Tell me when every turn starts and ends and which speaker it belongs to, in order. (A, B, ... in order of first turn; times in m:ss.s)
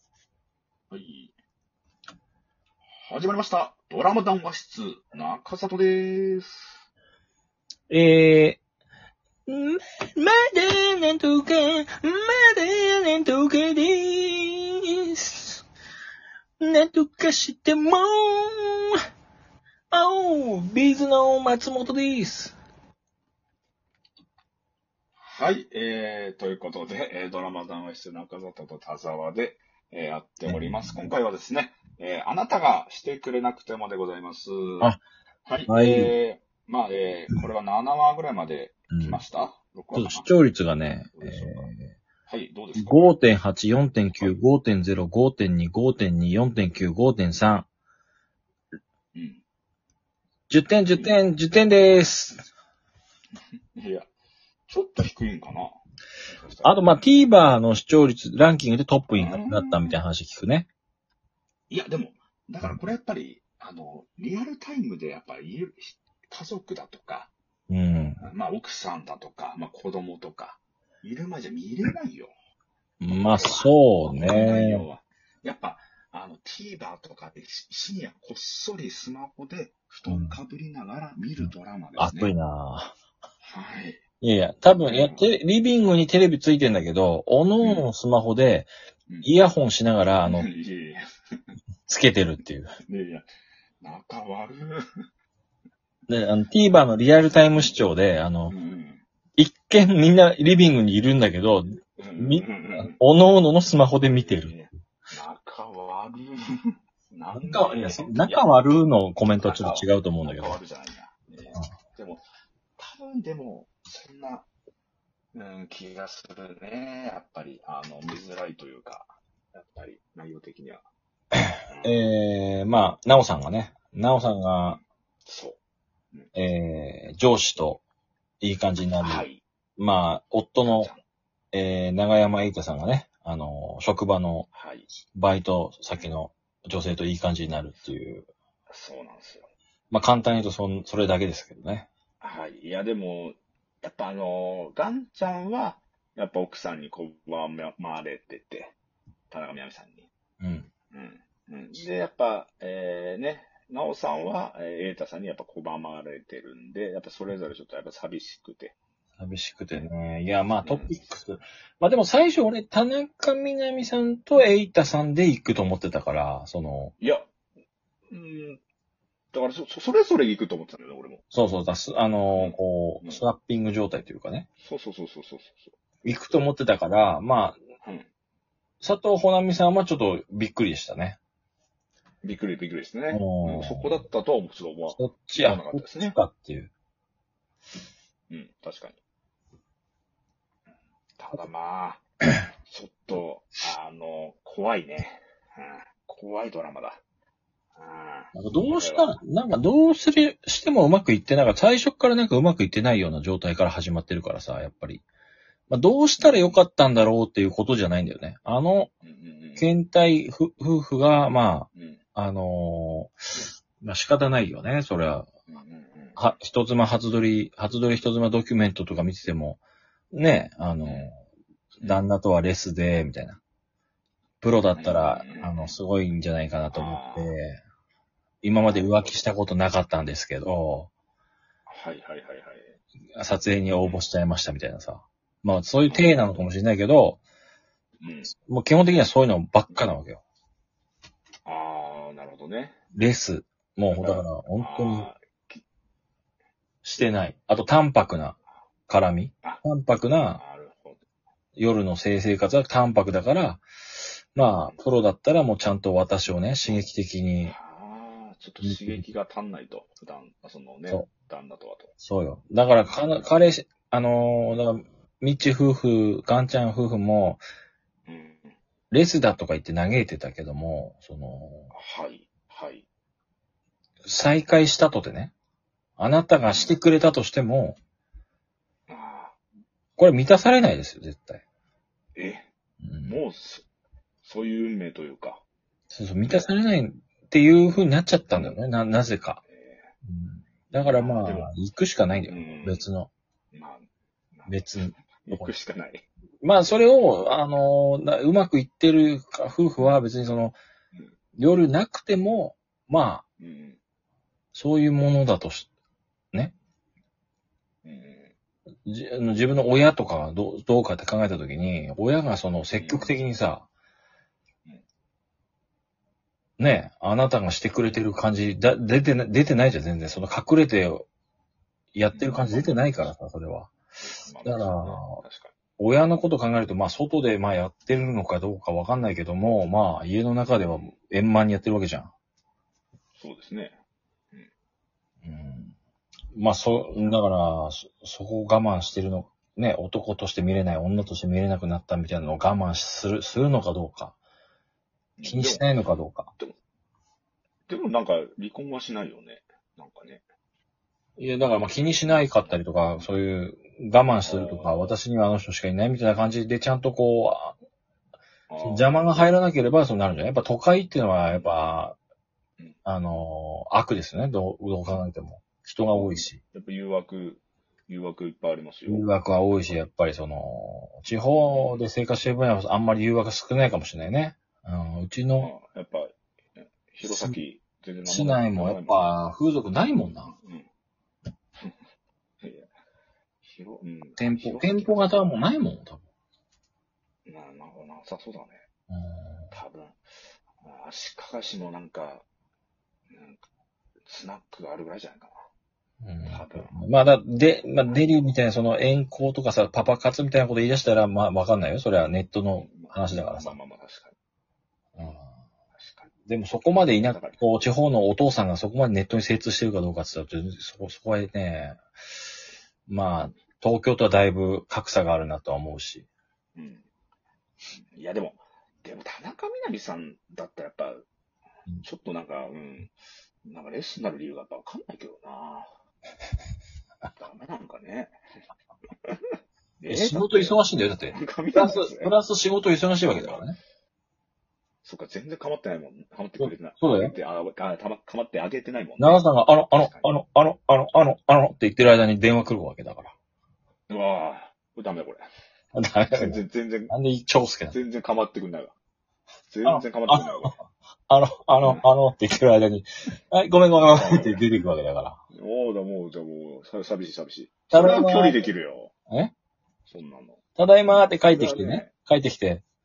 0:00.9-0:01.3 A
0:03.0-0:06.8 A
0:07.9-0:08.6 B
0:09.5-0:15.7 B
0:16.6-0:19.0 B
0:19.9-0:22.6 B
0:25.2-0:34.9 A
0:30.4-0:31.0 B
0:35.5-0:40.3 A
0:35.7-0:36.1 B
0:38.9-0:39.2 B
0:39.9-0:41.9 B
0:41.2-0:41.7 A
0:42.3-0:43.2 A
0:42.8-0:47.7 B
0:49.1-0:49.4 A
0:50.5-0:52.4 B
0:50.9-0:51.2 A
0:53.8-0:54.1 A
0:54.7-0:55.8 A
0:56.3-0:56.8 A
0:56.6-1:00.7 B
0:59.2-1:00.0 A
1:01.7-1:07.3 A
1:07.7-1:08.2 B
1:08.2-1:12.3 A
1:13.0-1:14.9 B
1:13.2-1:22.3 A
1:20.1-1:20.4 B
1:21.4-1:22.9 B
1:23.4-1:24.0 A
1:24.2-1:28.7 B
1:24.8-1:25.3 A
1:27.6-1:27.9 A
1:29.2-1:30.5 B
1:30.2-1:31.0 A
1:31.9-1:32.7 B
1:32.9-1:33.3 A
1:33.8-1:34.8 A
1:36.1-1:38.5 B
1:38.5-1:39.0 A
1:39.4-1:44.5 B
1:42.0-1:43.0 A
1:44.0-1:48.5 A
1:47.4-1:50.6 B
1:49.4-1:52.2 A
1:52.8-1:54.5 A
1:55.3-2:00.8 A
2:01.7-2:02.1 A
2:01.8-2:04.8 B
2:04.7-2:05.6 A
2:06.3-2:07.8 B
2:08.4-2:09.3 B
2:09.0-2:09.4 A
2:09.8-2:10.9 B
2:10.6-2:11.0 A
2:11.5-2:14.5 B
2:14.5-2:14.9 A
2:15.1-2:18.3 B
2:18.7-2:19.5 A
2:19.9-2:21.9 B
2:22.2-2:28.8 A
2:29.3-2:30.1 A
2:30.4-2:30.7 B
2:30.9-2:38.8 A
2:39.2-2:46.9 B
2:40.6-2:41.0 A
2:47.0-2:47.3 A
2:48.1-2:48.6 A
2:49.3-2:51.2 A
2:51.3-2:54.5 B
2:52.4-2:53.2 A
2:54.6-2:55.8 A
2:56.0-2:57.6 B
2:57.8-2:58.1 A
2:58.8-3:01.2 B
3:02.2-3:06.2 A
3:03.1-3:04.0 B
3:04.9-3:06.7 B
3:08.3-3:09.0 A
3:11.2-3:12.0 A
3:12.7-3:17.0 A
3:17.8-3:19.2 A
3:18.3-3:25.0 B
3:25.7-3:28.9 B
3:26.2-3:26.6 A
3:29.0-3:29.7 A
3:29.6-3:33.2 B
3:31.7-3:32.0 A
3:33.8-3:35.3 B
3:35.5-3:36.2 A
3:36.2-3:39.6 B
3:40.1-3:41.2 B
3:40.8-3:41.1 A
3:41.8-3:43.4 B
3:44.4-3:47.6 B
3:44.8-3:45.8 A
3:46.7-3:47.4 A
3:48.4-3:50.9 B
3:48.7-3:49.2 A
3:51.7-3:52.7 A
3:53.2-3:57.2 B
3:53.8-3:54.0 A
3:55.9-3:56.4 A
3:58.0-3:58.3 A
3:58.4-4:00.2 B
4:01.4-4:02.8 A
4:03.0-4:05.1 B
4:04.0-4:05.6 A
4:06.8-4:08.4 B
4:08.9-4:10.4 B
4:10.4-4:11.0 A
4:11.6-4:13.6 B
4:14.3-4:17.6 B
4:14.5-4:14.8 A
4:17.4-4:21.9 A
4:18.6-4:19.0 B
4:22.0-4:27.4 B
4:28.1-4:28.6 A
4:28.9-4:31.7 B
4:31.7-4:32.9 A
4:34.0-4:35.3 B
4:36.0-4:37.8 B
4:36.4-4:36.8 A
4:38.9-4:39.4 A
4:40.0-4:41.4 B
4:42.2-4:42.5 A
4:42.8-4:43.2 B
4:43.1-4:43.7 A
4:44.2-4:45.4 A
4:45.9-4:49.4 B
4:48.3-4:48.6 A
4:49.5-4:49.9 A
4:50.0-4:53.1 B
4:50.8-4:51.5 A
4:52.3-4:52.9 A
4:53.5-4:56.1 A
4:54.5-4:55.5 B
4:56.4-5:00.6 B
5:01.4-5:03.2 B
5:03.4-5:03.8 A
5:04.5-5:05.7 B
5:07.8-5:08.3 A
5:08.9-5:13.7 B
5:12.8-5:13.2 A
5:16.6-5:21.1 B
5:21.9-5:23.7 B
5:22.1-5:23.1 A
5:24.0-5:25.5 A
5:24.4-5:25.2 B
5:25.8-5:32.1 B
5:30.7-5:30.9 A
5:33.2-5:33.8 A
5:35.2-5:35.8 B
5:36.4-5:44.2 B
5:45.2-5:45.8 A
5:45.2-5:46.3 B
5:47.7-5:50.2 A
5:51.2-5:57.6 B
5:52.2-5:53.1 A
5:54.2-5:54.9 A
5:58.5-5:59.2 A
5:58.6-6:02.0 B
6:01.3-6:01.5 A
6:02.8-6:06.4 B
6:05.9-6:09.1 A
6:08.9-6:15.5 B
6:11.3-6:11.8 A
6:15.4-6:19.2 A
6:17.0-6:17.4 B
6:18.1-6:20.3 B
6:20.3-6:20.7 A
6:22.4-6:22.7 A
6:23.4-6:25.4 A
6:24.2-6:26.0 B
6:27.3-6:28.6 A
6:28.9-6:29.5 B
6:29.5-6:30.0 A
6:30.6-6:32.2 A
6:33.1-6:33.4 A
6:34.1-6:35.4 A
6:36.0-6:43.6 B
6:36.3-6:36.8 A
6:42.6-6:44.2 A
6:45.0-6:45.3 B
6:45.8-6:46.1 A
6:46.3-6:51.8 B
6:47.0-6:47.4 A
6:52.9-6:56.1 B
6:56.6-6:56.8 A
6:57.9-7:01.1 A
7:01.8-7:02.9 A
7:03.4-7:05.7 A
7:07.2-7:08.2 A
7:09.8-7:12.2 A
7:09.9-7:13.6 B
7:13.1-7:13.4 A
7:14.8-7:19.2 A
7:16.4-7:17.2 B
7:19.0-7:23.1 B
7:19.8-7:20.1 A
7:23.9-7:25.2 A
7:25.8-7:27.8 B
7:26.1-7:26.9 A
7:27.7-7:28.7 A
7:29.5-7:30.6 A
7:29.6-7:35.2 B
7:33.9-7:34.4 A
7:35.3-7:38.9 A
7:37.7-7:38.4 B
7:39.9-7:40.4 A
7:40.6-7:42.6 B
7:41.3-7:41.9 A